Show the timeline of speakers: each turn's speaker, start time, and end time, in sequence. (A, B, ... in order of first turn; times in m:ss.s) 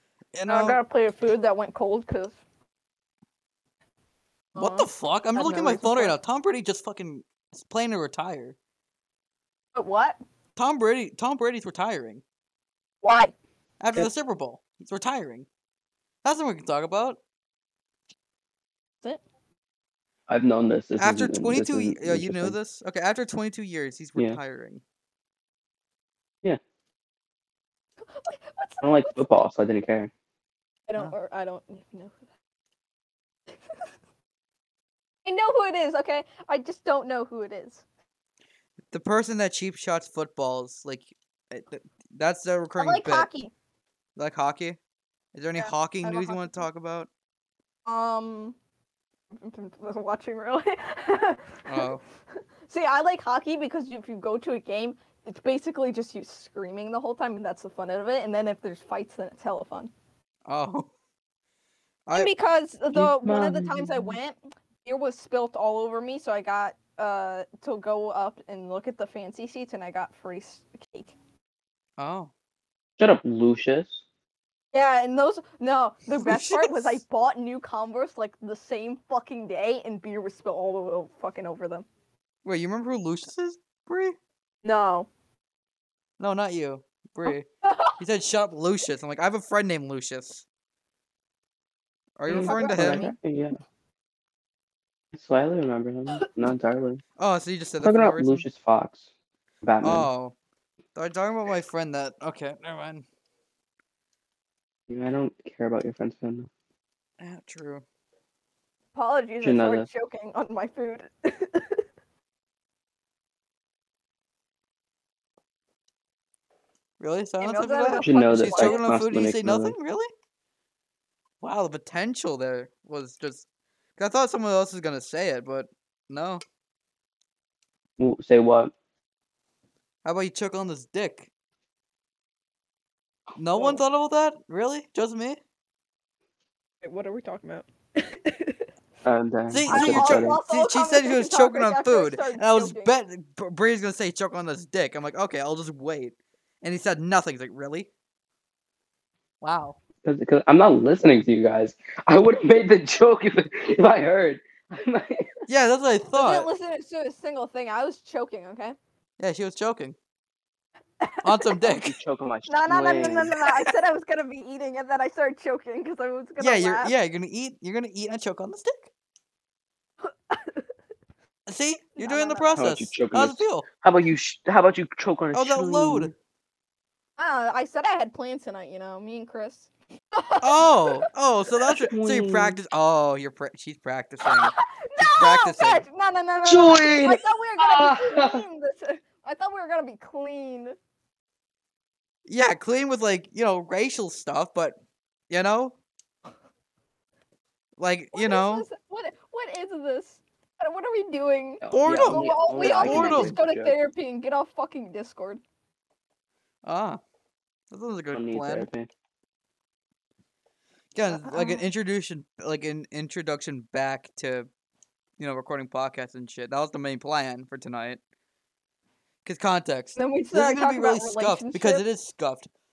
0:00.3-0:00.8 A
0:00.5-0:02.4 B
0:04.5-0:06.1 B
0:04.6-0:08.6 A
0:09.7-0:10.2 B
0:10.6-0:12.2 A
0:13.0-0:13.3 B
0:13.8-0:15.4 A
0:16.2-0:17.2 A
0:20.3-0:22.6 C
0:21.0-0:24.8 A
0:28.1-0:29.3 B
0:28.8-0:30.1 C
0:30.9-0:32.2 B
0:35.2-0:37.8 B
0:38.9-0:43.3 A
0:42.8-0:43.5 B
0:44.2-0:44.8 A
0:45.3-0:47.1 A
0:45.6-0:46.6 B
0:47.9-0:48.6 B
0:49.3-0:51.9 B
0:51.7-0:52.0 A
0:52.7-0:59.9 B
1:00.5-1:00.9 A
1:02.1-1:11.1 B
1:02.9-1:04.2 C
1:12.0-1:12.3 A
1:13.0-1:14.0 C
1:14.7-1:21.8 B
1:16.1-1:17.0 A
1:22.4-1:24.2 A
1:24.6-1:25.1 B
1:26.2-1:27.5 A
1:27.2-1:28.0 B
1:28.0-1:30.4 A
1:32.2-1:33.0 A
1:32.3-1:33.6 C
1:32.3-1:33.1 B
1:35.1-1:37.0 C
1:37.2-1:38.4 A
1:37.8-1:39.1 C
1:39.6-1:40.1 C
1:39.8-1:40.3 A
1:40.9-1:43.0 A
1:44.9-1:46.5 C
1:47.2-1:47.8 A
1:48.9-1:51.8 B
1:49.4-1:49.9 C
1:57.0-2:00.1 A
1:57.4-1:59.0 B
1:58.0-1:59.7 C
2:01.4-2:03.4 A
2:04.0-2:06.4 A
2:08.0-2:08.7 C
2:10.0-2:11.3 A
2:13.4-2:15.4 A
2:13.5-2:13.8 B
2:16.8-2:18.6 B
2:19.0-2:20.4 C
2:19.5-2:27.9 A
2:19.7-2:22.9 B
2:29.4-2:29.8 A
2:30.0-2:35.4 C
2:35.5-2:36.5 A
2:36.2-2:38.8 B
2:39.2-2:40.0 A
2:41.0-2:41.5 B
2:41.2-2:42.0 A
2:41.6-2:43.3 C
2:42.5-2:46.9 B
2:46.4-2:48.9 A
2:50.0-2:50.6 B
2:51.5-2:53.7 A
2:52.0-2:52.7 B
2:52.6-2:56.1 C
2:55.3-2:56.1 A
2:57.2-3:01.0 B
3:00.4-3:05.8 A
3:01.7-3:02.6 C
3:04.2-3:10.7 B
3:06.4-3:08.4 C
3:12.2-3:14.8 A
3:15.3-3:15.8 A
3:17.8-3:18.7 A
3:18.1-3:25.4 B
3:21.6-3:23.7 C
3:21.7-3:23.4 A
3:26.6-3:27.0 A
3:27.7-3:28.7 A
3:28.1-3:28.9 C
3:30.9-3:34.5 A
3:31.1-3:31.6 B
3:35.2-3:38.0 A
3:39.2-3:42.5 A
3:40.0-3:41.8 B